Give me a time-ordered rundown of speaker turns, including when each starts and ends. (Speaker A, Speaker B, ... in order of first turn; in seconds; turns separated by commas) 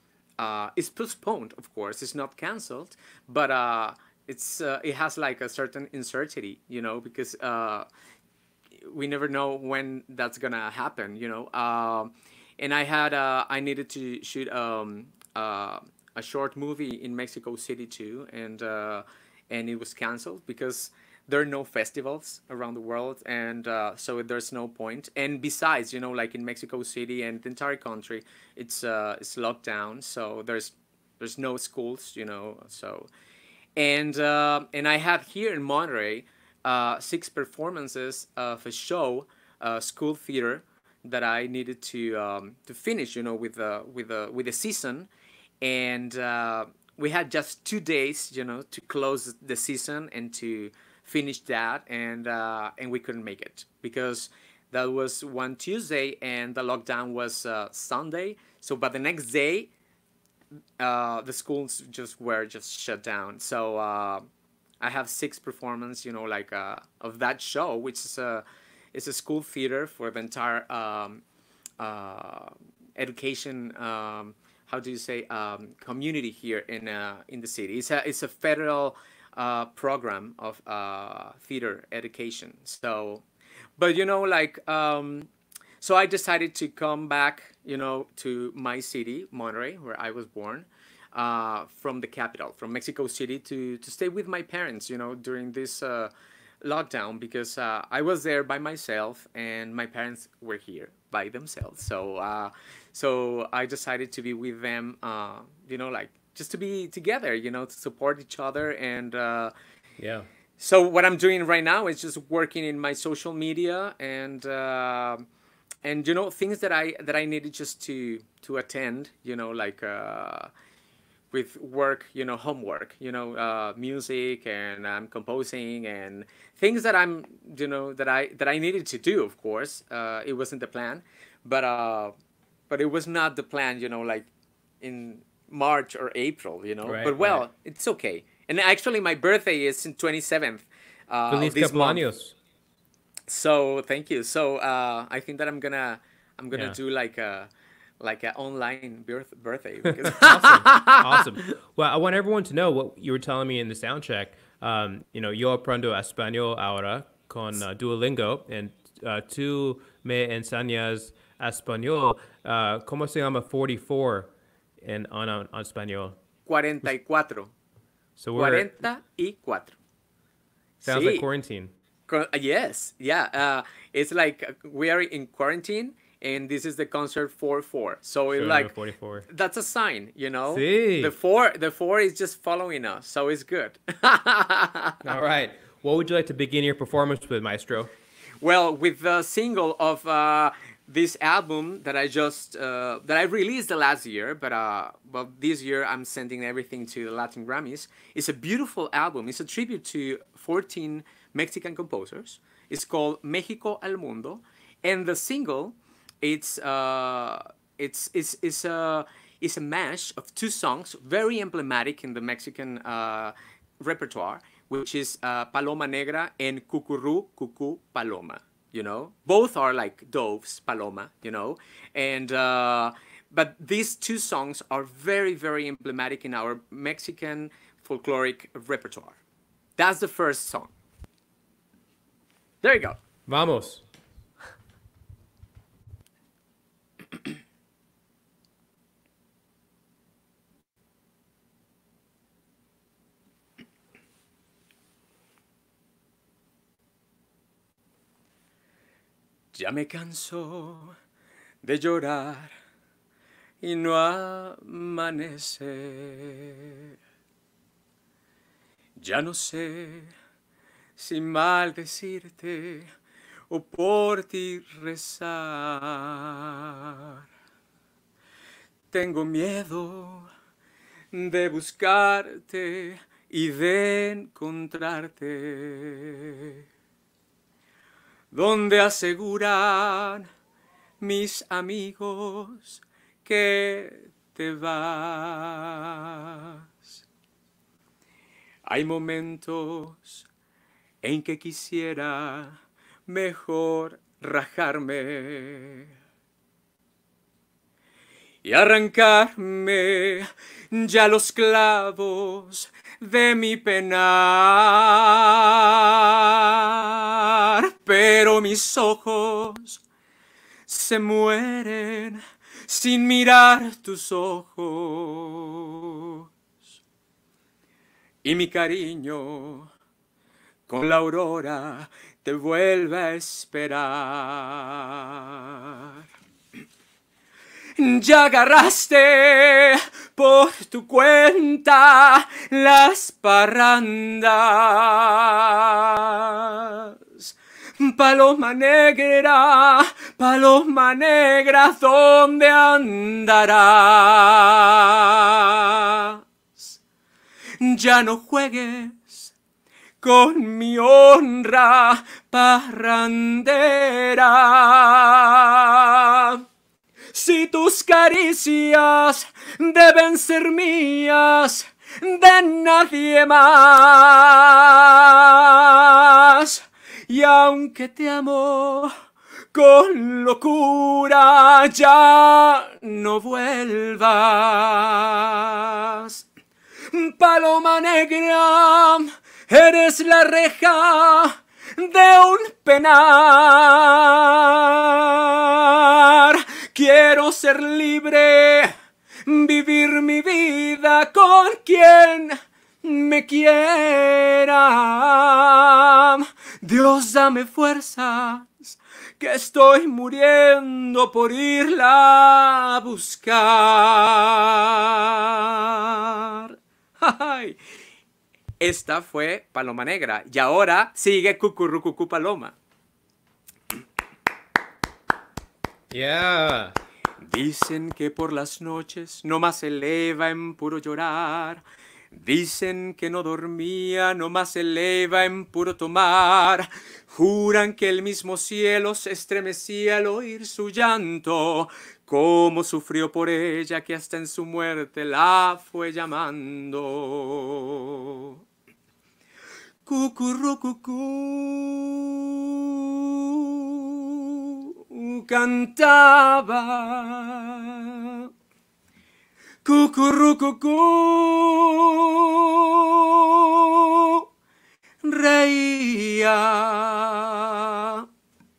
Speaker A: 0.4-7.8, Speaker A: 8.8-33.1, Speaker A: 33.8-45.1, Speaker A: 45.6-59.7, Speaker A: 60.8-64.2, Speaker A: 64.8-71.2, Speaker A: 71.8-83.2, Speaker A: 83.8-85.3, Speaker A: 85.8-96.1, Speaker A: 96.6-109.5, Speaker B: 110.0-110.3, Speaker A: 110.6-115.2, Speaker A: 115.8-120.5, Speaker A: 121.3-132.1, Speaker A: 132.7-134.3, Speaker A: 134.8-142.0, Speaker B: 136.8-137.4, Speaker B: 141.3-142.3, Speaker A: 143.3-147.5, Speaker A: 148.0-151.3, Speaker B: 149.9-166.2, Speaker A: 166.4-167.5, Speaker B: 168.2-168.7, Speaker A: 168.3-169.8, Speaker A: 170.8-171.2, Speaker B: 170.8-171.7, Speaker A: 172.1-185.1, Speaker B: 178.3-179.2, Speaker B: 180.5-181.1, Speaker B: 185.0-187.9, Speaker A: 188.4-229.2, Speaker A: 229.8-230.7, Speaker A: 232.6-233.0, Speaker B: 233.3-233.8, Speaker A: 249.5-251.0, Speaker A: 251.6-252.5, Speaker A: 253.6-256.8, Speaker A: 259.0-260.1, Speaker A: 261.0-262.9, Speaker A: 263.5-267.2, Speaker A: 268.9-270.3, Speaker A: 271.1-276.6, Speaker A: 278.3-280.3, Speaker A: 281.0-286.6, Speaker A: 288.7-290.2, Speaker A: 291.0-295.9, Speaker A: 298.4-309.8, Speaker A: 310.7-316.2, Speaker A: 318.2-319.7, Speaker A: 320.7-325.9, Speaker A: 327.8-346.7, Speaker A: 347.6-349.3, Speaker A: 350.0-356.4, Speaker A: 357.1-368.9, Speaker A: 369.5-376.2, Speaker A: 376.9-388.7, Speaker A: 389.2-407.6, Speaker A: 408.6-412.6, Speaker B: 415.9-416.8, Speaker A: 417.2-438.3, Speaker A: 439.9-448.3, Speaker A: 449.6-454.2, Speaker A: 455.0-458.0